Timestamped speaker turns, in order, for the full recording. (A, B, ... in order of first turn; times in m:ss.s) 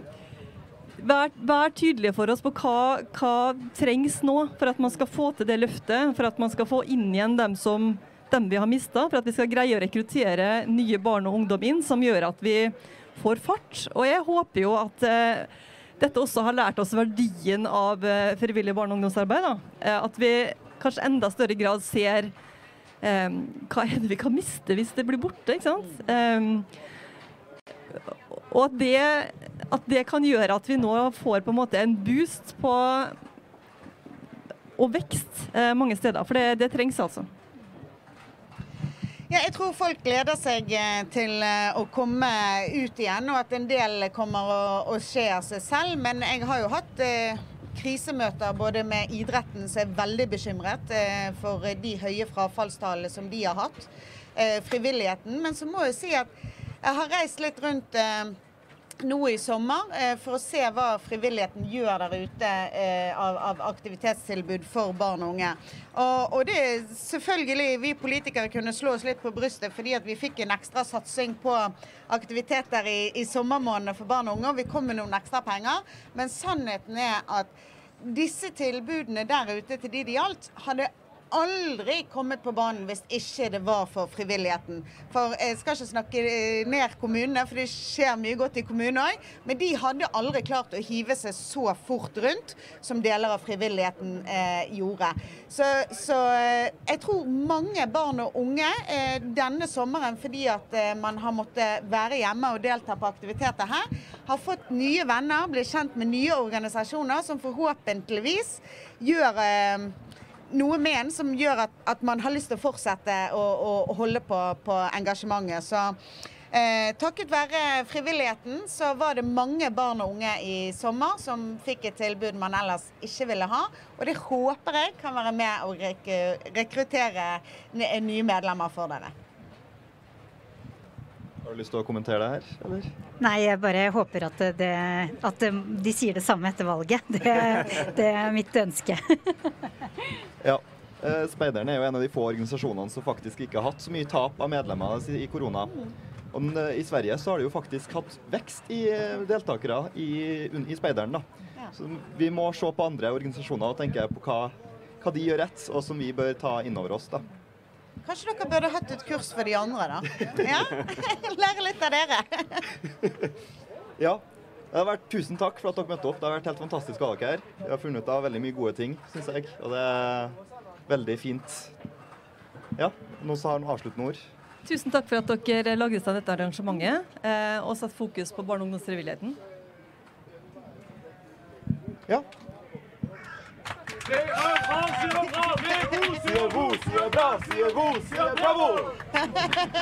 0:01.0-0:22.3 A
0:23.0-0:26.7 A
0:28.5-0:33.2 A
0:34.8-0:37.3 A
0:39.3-0:56.3 B
0:56.8-0:58.4 B
0:59.0-1:50.0 B
1:50.5-1:56.0 B
1:56.5-2:09.1 B
2:11.4-2:12.9 C
2:13.2-2:19.2 D
2:20.4-2:25.8 C
2:26.3-2:37.3 C
2:38.0-2:42.6 B
2:44.0-2:50.4 C
2:50.9-2:51.7 C
2:52.8-2:54.2 C
2:54.6-2:59.4 A
3:04.1-3:09.0 C